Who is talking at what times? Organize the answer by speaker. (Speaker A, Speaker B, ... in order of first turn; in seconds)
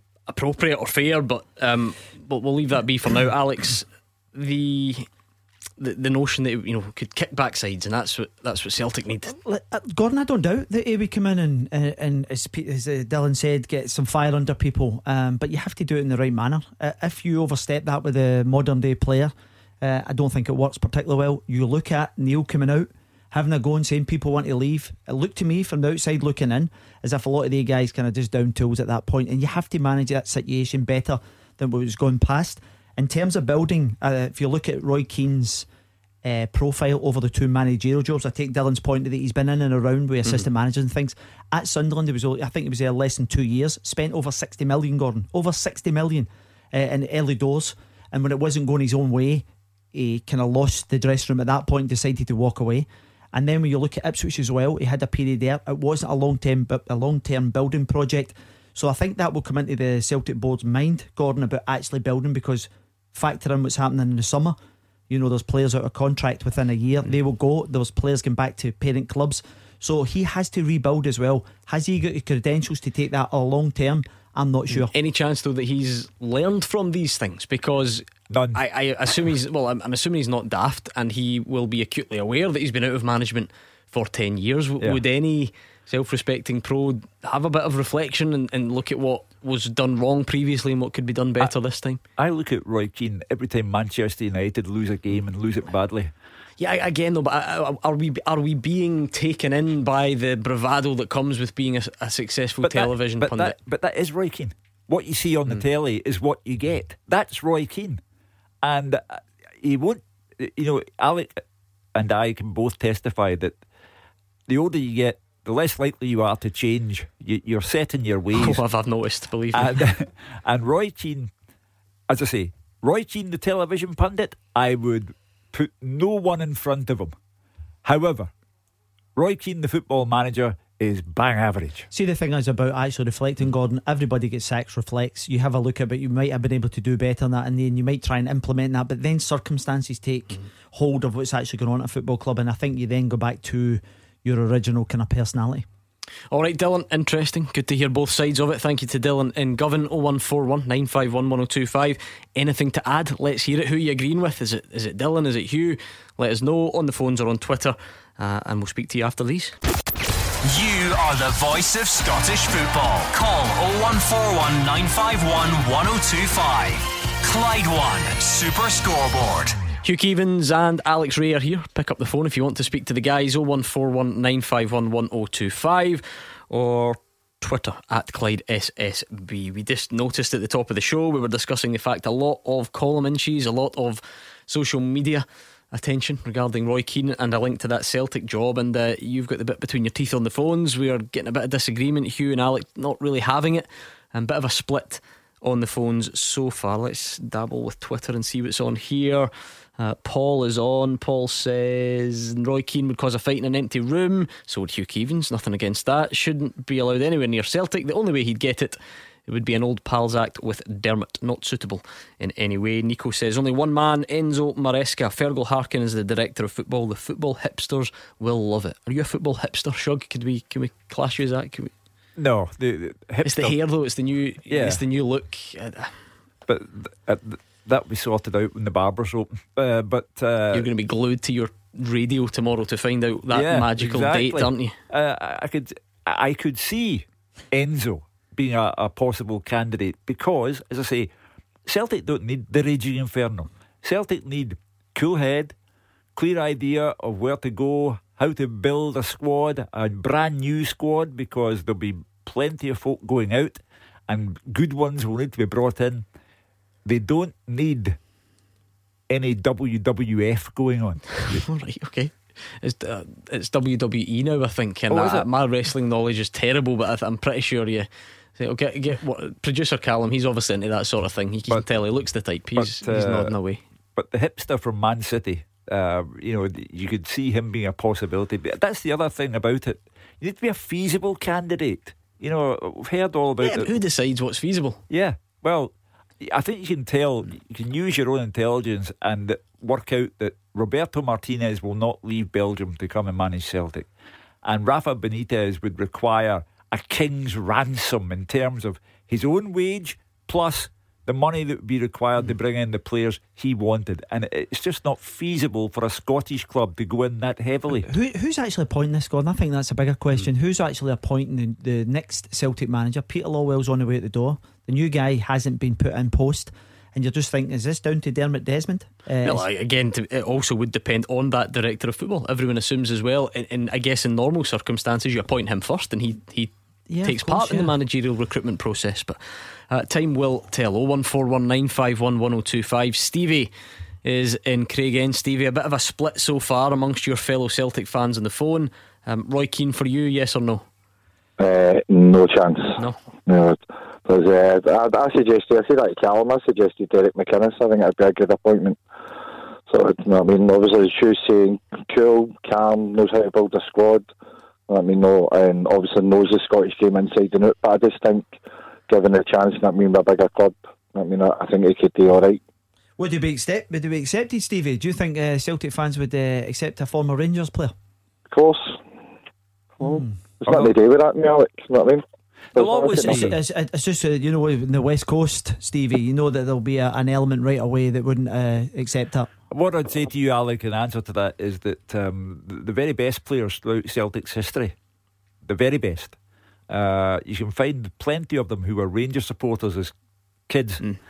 Speaker A: 0.3-5.1, 5.8-9.3, 74.7-92.0, 96.6-103.6, 118.3-119.8, 146.3-159.6, 169.8-221.7, 223.2-226.0, 230.5-234.8, 261.2-273.6, 283.4-284.8, 319.2-329.2, 329.7-333.5, 334.0-340.6
Speaker B: 9.3-35.7, 36.2-64.6, 65.1-74.9, 131.9-145.7, 307.8-319.4, 326.9-327.7, 363.0-367.7, 369.8-370.1, 372.6-379.3
Speaker C: 78.3-78.6, 92.2-96.1, 102.6-108.0, 108.6-111.4, 111.9-113.5, 114.5-118.6, 119.5-121.3, 122.1-127.1, 127.8-128.3, 129.2-131.9, 222.2-223.6, 224.5-224.8, 226.5-230.7, 233.3-241.1, 241.7-245.5, 246.2-256.0, 256.8-258.0, 259.1-261.4, 264.9-265.3, 272.6-273.3, 273.9-283.7, 284.9-293.9, 294.4-307.9, 370.5-370.7, 372.5-373.4, 379.5-384.7, 385.4-386.1, 386.7-389.9, 390.5-390.8
Speaker D: 160.4-169.6
Speaker E: 341.4-348.8, 349.7-354.1, 354.7-358.3, 358.9-362.4, 368.3-368.8, 370.4-372.0, 372.6-373.2